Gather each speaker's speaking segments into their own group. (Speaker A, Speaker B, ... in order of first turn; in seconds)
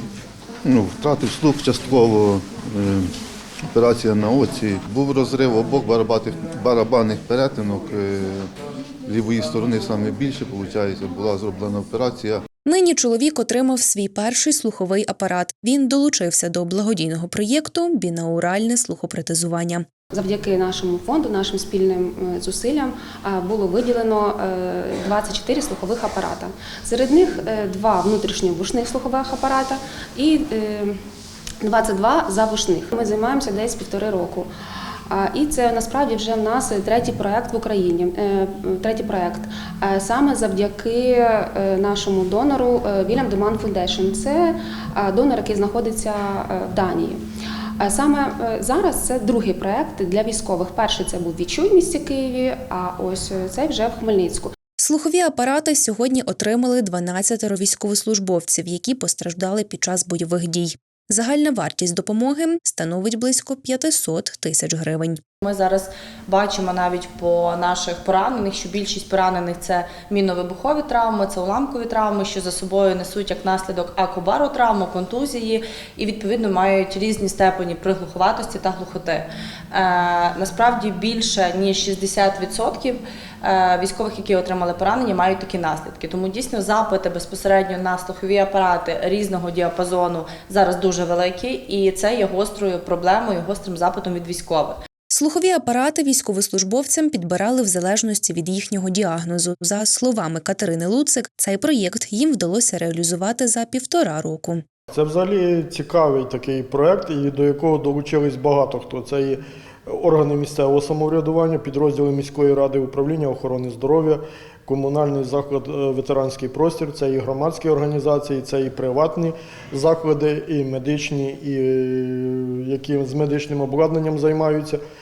Speaker A: 0.6-3.1, 3.7-8.5, 9.1-12.4
Speaker B: 12.7-19.9, 54.8-65.2, 95.1-104.6
Speaker C: 20.1-31.0, 31.6-34.5, 35.1-47.2, 47.8-54.5
Speaker D: 65.4-94.8
Speaker E: 104.9-124.8